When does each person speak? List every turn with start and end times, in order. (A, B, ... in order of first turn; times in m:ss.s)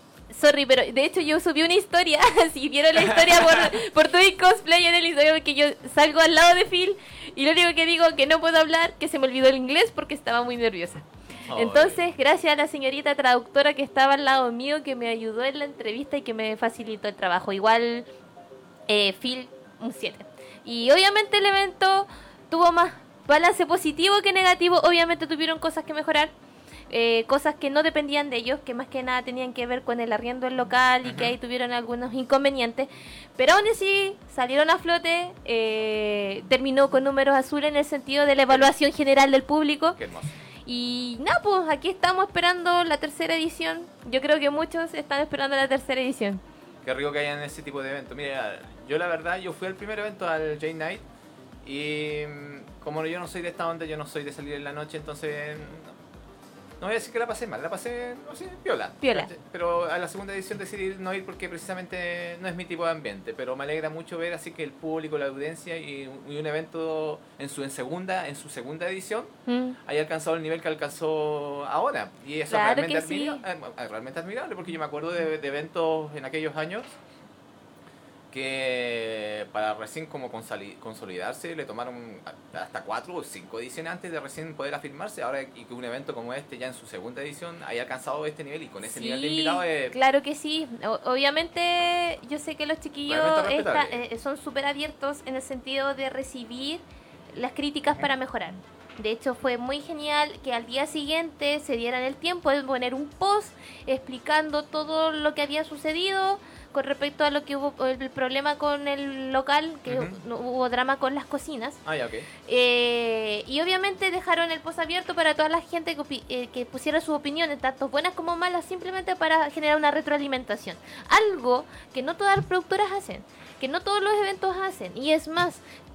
0:00.3-0:18.1 A
0:03.0-0:03.8 B
0:11.5-0:12.0 B
0:18.9-0:26.3 A
0:26.9-0:40.0 A
0:31.0-0:31.4 B
0:40.0-0:40.3 B
0:40.7-0:46.4 A
0:46.8-0:51.0 B
0:51.6-0:56.0 B
0:56.8-1:09.3 B
0:59.0-0:59.3 A
1:09.5-1:09.8 A
1:09.8-1:17.0 B
1:12.5-1:13.4 A
1:18.3-1:30.0 B
1:28.8-1:36.8 A
1:33.1-1:34.0 B
1:37.3-1:51.8 A
1:49.9-1:50.2 B
1:51.8-1:52.3 B
1:52.5-2:05.6 A